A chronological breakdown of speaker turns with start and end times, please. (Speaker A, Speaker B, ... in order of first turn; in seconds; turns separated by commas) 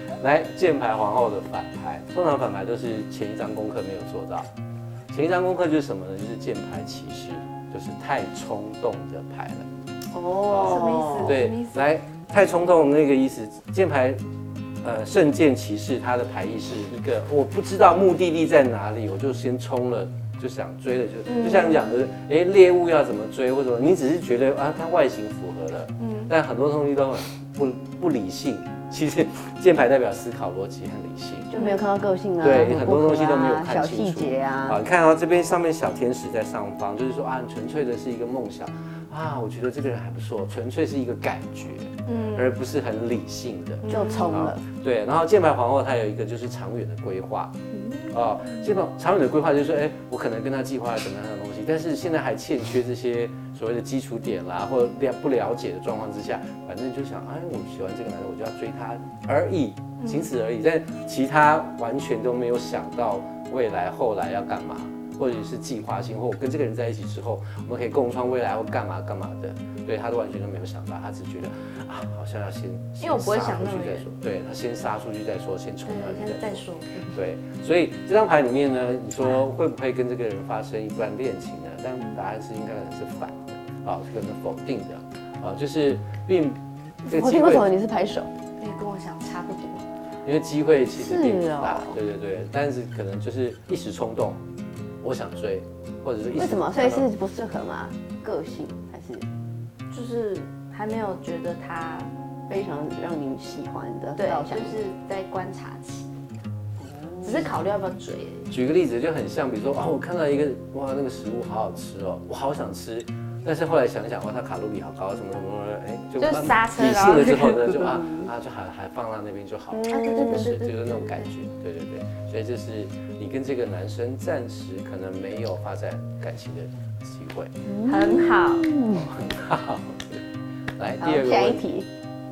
Speaker A: 0.2-4.5, Speaker A: 5.1-9.7, Speaker B: 10.1-11.4, Speaker A: 10.5-14.2, Speaker C: 10.6-11.9, Speaker A: 14.8-31.5, Speaker C: 21.3-21.9, Speaker C: 26.0-26.3, Speaker C: 31.5-31.8, Speaker B: 31.5-34.8, Speaker A: 32.4-47.5, Speaker C: 42.1-42.5, Speaker C: 43.8-44.4, Speaker B: 43.9-44.6, Speaker C: 47.7-48.7, Speaker A: 48.1-87.7, Speaker C: 60.0-60.3, Speaker C: 73.0-74.1, Speaker C: 75.9-77.2, Speaker B: 87.1-88.3, Speaker C: 88.6-89.8, Speaker A: 90.2-94.4, Speaker B: 90.9-92.0, Speaker A: 95.0-97.1, Speaker B: 96.3-99.3, Speaker C: 99.9-102.1, Speaker B: 102.5-104.8, Speaker C: 104.2-106.1, Speaker B: 106.8-107.5, Speaker C: 107.2-108.5, Speaker A: 108.5-127.5, Speaker C: 116.2-118.0, Speaker B: 119.7-120.5, Speaker C: 119.9-121.3, Speaker B: 127.7-129.2, Speaker C: 127.9-128.7, Speaker A: 128.9-130.2, Speaker A: 130.8-131.7, Speaker B: 131.0-131.9